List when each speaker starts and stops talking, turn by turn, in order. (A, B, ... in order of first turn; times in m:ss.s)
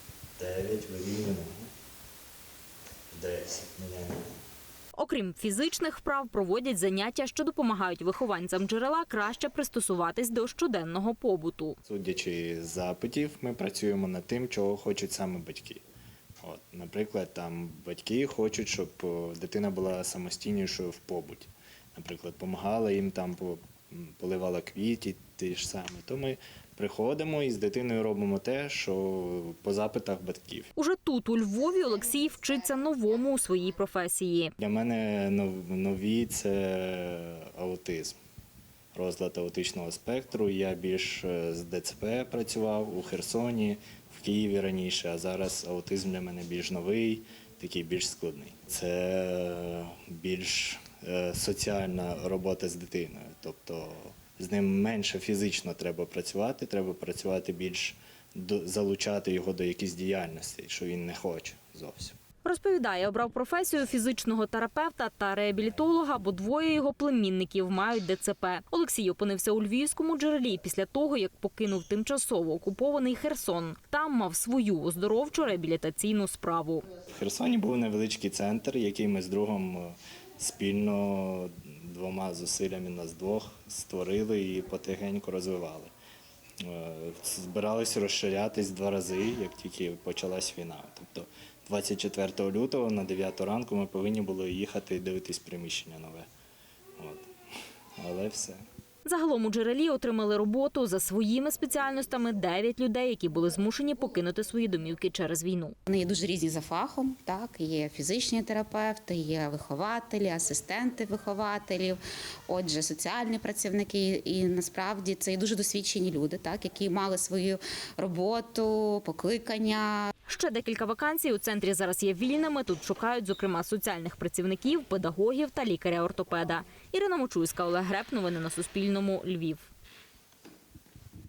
0:00.4-0:01.7 A
0:03.1-0:04.3 A
0:04.9-0:11.8 B
0:11.8-0:15.8 A
0:16.4-0:30.7 A
0:30.8-0:34.5 B
0:34.6-0:38.2 A
0:38.9-1:02.2 A
1:02.4-1:16.9 B
1:17.1-1:25.9 A
1:26.6-1:36.3 A
1:37.0-1:37.3 A
1:38.0-1:38.6 A
1:39.0-1:45.8 B
1:45.9-2:00.1 C
2:00.3-2:09.7 B